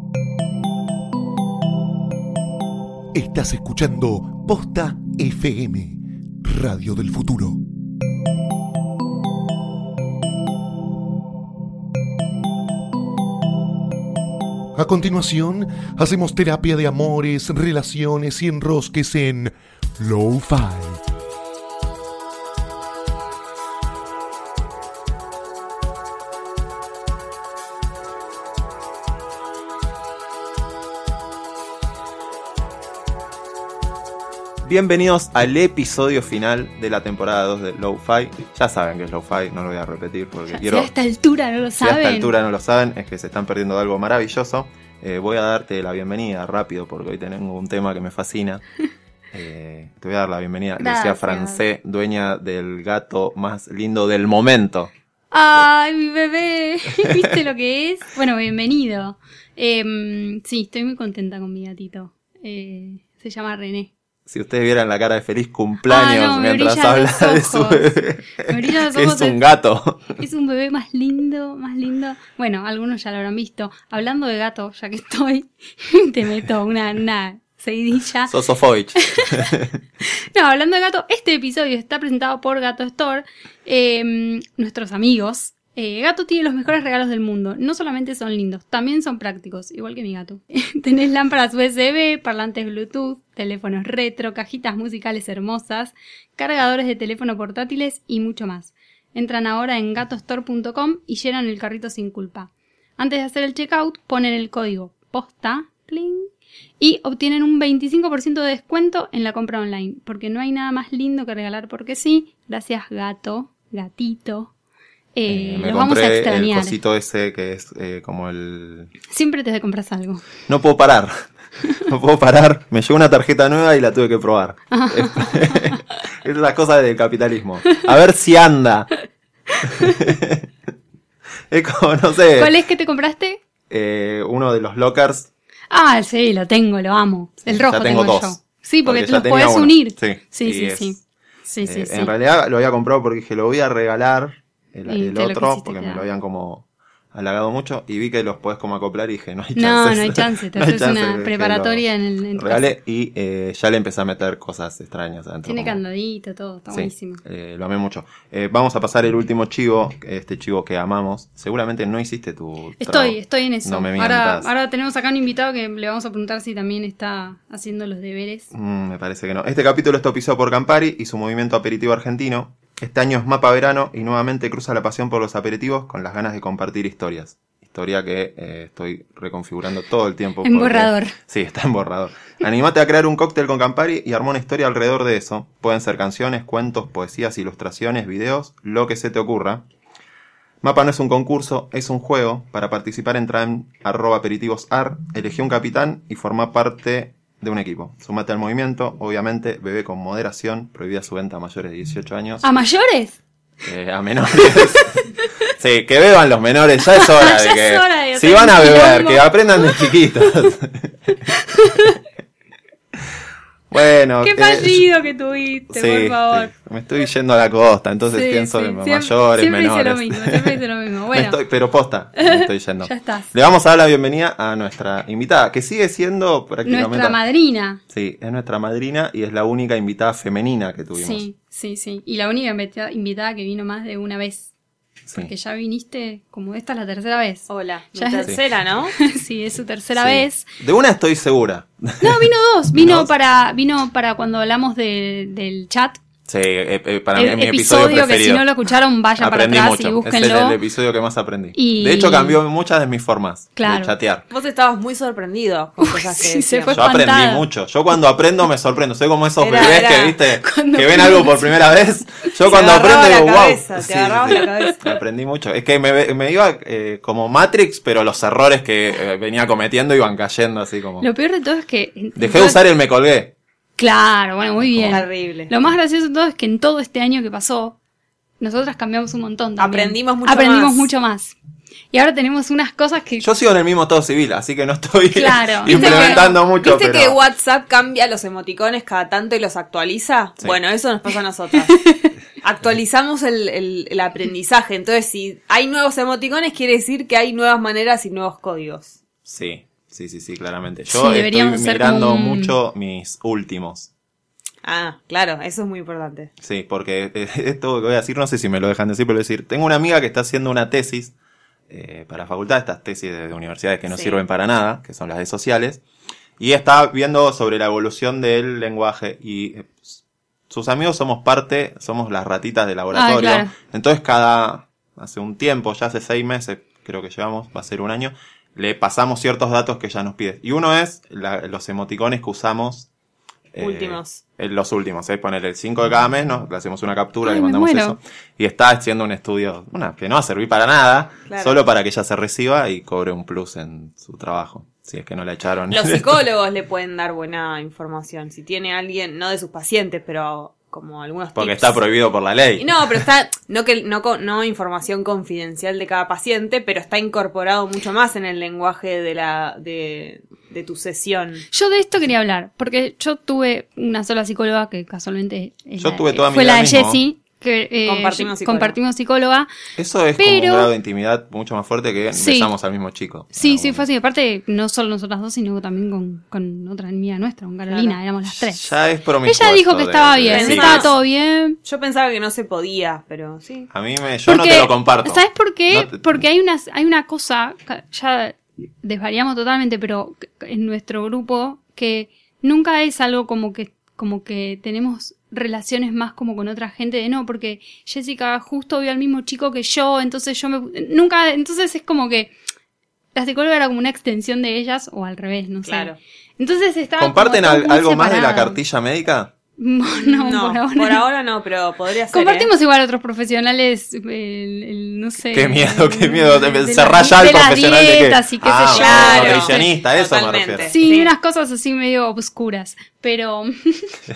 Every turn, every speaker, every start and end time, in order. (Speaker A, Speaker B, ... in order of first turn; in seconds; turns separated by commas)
Speaker A: 3.1-7.6, Speaker A: 14.8-21.0, Speaker B: 34.6-40.9, Speaker C: 40.5-42.3, Speaker B: 41.8-48.6, Speaker B: 49.3-54.9, Speaker C: 50.8-51.6, Speaker C: 55.3-63.9, Speaker B: 64.3-70.2, Speaker C: 65.9-68.0, Speaker C: 68.5-69.4, Speaker C: 70.2-78.3, Speaker B: 78.3-79.7, Speaker C: 79.0-79.4, Speaker C: 80.0-114.5, Speaker C: 115.2-116.8, Speaker B: 115.3-118.9, Speaker C: 119.1-120.2, Speaker B: 120.5-121.3, Speaker B: 121.9-128.9, Speaker C: 124.7-125.8, Speaker C: 129.6-129.9, Speaker B: 129.8-130.5, Speaker B: 131.5-132.5, Speaker C: 132.4-133.4, Speaker B: 133.7-135.3, Speaker C: 135.7-142.1, Speaker B: 137.4-141.0, Speaker B: 141.6-151.8, Speaker C: 144.9-146.1, Speaker C: 149.6-152.7, Speaker B: 152.4-155.8, Speaker C: 155.4-157.2, Speaker B: 156.7-164.5, Speaker C: 162.8-168.5, Speaker B: 168.5-189.6, Speaker C: 180.4-181.2, Speaker B: 190.6-202.4, Speaker C: 202.4-203.2, Speaker B: 203.6-205.0, Speaker C: 204.6-205.2, Speaker B: 205.6-210.9, Speaker C: 207.0-209.9, Speaker C: 211.1-212.0, Speaker B: 213.7-214.8, Speaker C: 214.2-216.5, Speaker B: 215.7-220.6, Speaker C: 218.1-221.4, Speaker B: 221.1-227.2, Speaker C: 222.2-223.3, Speaker C: 226.7-227.8, Speaker B: 227.9-231.2, Speaker C: 230.9-234.5, Speaker C: 235.1-238.3, Speaker D: 237.5-238.9, Speaker C: 239.0-240.5, Speaker B: 240.0-243.1, Speaker C: 242.0-246.0, Speaker B: 246.3-248.4, Speaker C: 247.2-250.6, Speaker B: 249.2-254.2, Speaker C: 251.6-252.4, Speaker C: 253.6-253.9, Speaker D: 254.3-256.8, Speaker C: 255.8-257.5, Speaker B: 256.7-271.1, Speaker D: 259.4-260.2, Speaker C: 260.4-261.8, Speaker D: 262.5-264.8, Speaker C: 264.3-264.7, Speaker C: 271.0-272.6, Speaker B: 272.2-273.3, Speaker C: 273.8-277.8, Speaker B: 274.6-275.0, Speaker D: 274.9-275.5, Speaker C: 278.4-281.4, Speaker D: 279.6-280.9, Speaker C: 281.9-283.3, Speaker B: 283.2-287.2, Speaker C: 285.1-286.3, Speaker D: 285.7-291.9, Speaker C: 291.8-292.1, Speaker D: 292.4-299.0, Speaker B: 299.2-303.9, Speaker C: 300.9-302.6, Speaker D: 304.6-306.3, Speaker B: 306.4-311.1, Speaker B: 311.7-315.8, Speaker D: 313.9-314.2, Speaker B: 316.4-332.9, Speaker C: 322.9-323.5, Speaker B: 333.5-346.1, Speaker D: 333.6-334.2, Speaker C: 337.2-338.0, Speaker D: 341.3-341.6, Speaker D: 345.7-351.8, Speaker B: 351.4-353.0, Speaker D: 352.6-361.4, Speaker C: 361.5-369.5, Speaker B: 365.8-367.0, Speaker D: 367.9-368.8, Speaker B: 369.8-373.9, Speaker C: 370.2-370.7, Speaker C: 372.2-372.5, Speaker C: 373.3-378.7, Speaker D: 377.7-378.0, Speaker B: 378.3-380.9, Speaker C: 379.2-381.6, Speaker D: 380.3-380.9, Speaker D: 381.6-383.7, Speaker B: 383.7-386.1, Speaker C: 384.3-402.3, Speaker C: 403.1-408.6, Speaker D: 405.7-406.0, Speaker B: 407.0-409.3, Speaker C: 409.6-411.0, Speaker D: 410.0-412.5, Speaker C: 412.1-419.7, Speaker B: 415.3-420.7, Speaker D: 418.7-421.1, Speaker C: 420.7-424.0